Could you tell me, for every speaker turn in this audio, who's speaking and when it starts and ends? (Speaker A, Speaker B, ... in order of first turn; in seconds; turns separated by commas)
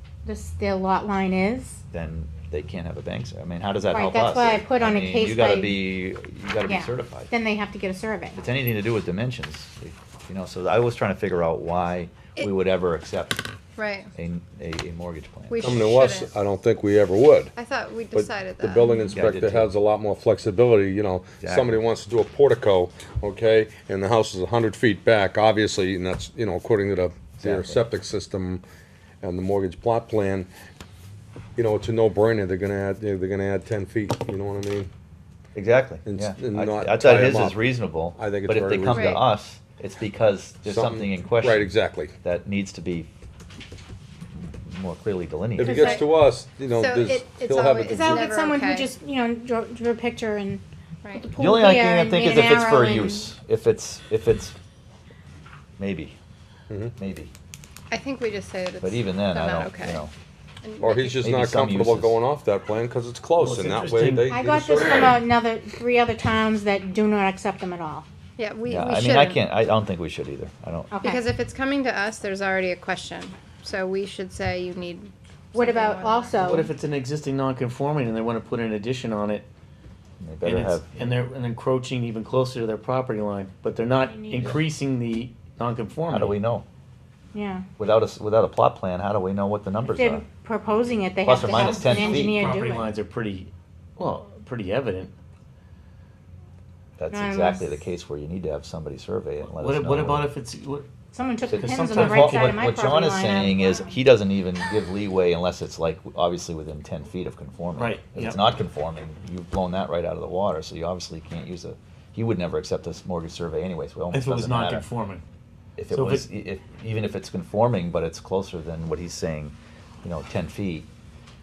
Speaker A: 0.2-1.8, Speaker B: 1.9-7.3, Speaker A: 3.9-5.8, Speaker A: 6.7-8.4, Speaker B: 8.4-13.5, Speaker C: 13.8-14.1, Speaker B: 14.2-15.8, Speaker C: 15.5-16.3, Speaker D: 15.6-17.5, Speaker C: 17.6-19.1, Speaker D: 18.1-28.6, Speaker B: 19.1-19.7, Speaker B: 21.4-21.8, Speaker B: 27.4-27.8, Speaker D: 29.2-30.5, Speaker D: 31.6-34.9, Speaker B: 35.5-41.7, Speaker D: 36.1-39.2, Speaker C: 38.9-39.2, Speaker D: 40.6-42.1, Speaker B: 42.2-43.1, Speaker B: 44.6-46.0, Speaker D: 45.6-48.2, Speaker C: 45.7-46.1, Speaker C: 46.7-48.9, Speaker A: 47.9-50.6, Speaker C: 51.0-51.3, Speaker A: 51.1-53.3, Speaker B: 51.4-54.5, Speaker B: 55.8-56.1, Speaker B: 57.0-57.3, Speaker C: 57.9-60.0, Speaker B: 58.8-60.1, Speaker C: 60.6-61.2, Speaker D: 60.8-65.2, Speaker B: 61.1-62.2, Speaker E: 63.4-65.0, Speaker A: 64.3-68.1, Speaker C: 68.4-69.4, Speaker B: 68.7-70.9, Speaker A: 70.9-71.2, Speaker C: 71.0-76.6, Speaker A: 75.5-76.7, Speaker E: 76.4-79.5, Speaker B: 80.2-80.9, Speaker E: 80.4-86.4, Speaker A: 84.1-84.5, Speaker B: 86.1-86.7, Speaker A: 87.3-87.7, Speaker B: 87.8-90.2, Speaker A: 89.9-92.9, Speaker B: 91.2-92.5, Speaker E: 91.5-95.1, Speaker B: 97.0-100.3, Speaker A: 97.1-97.8, Speaker E: 99.5-100.9, Speaker A: 101.1-104.0, Speaker B: 101.5-114.9, Speaker E: 101.5-102.6, Speaker E: 107.8-108.4, Speaker E: 114.1-115.2, Speaker B: 115.8-120.9, Speaker E: 115.9-116.2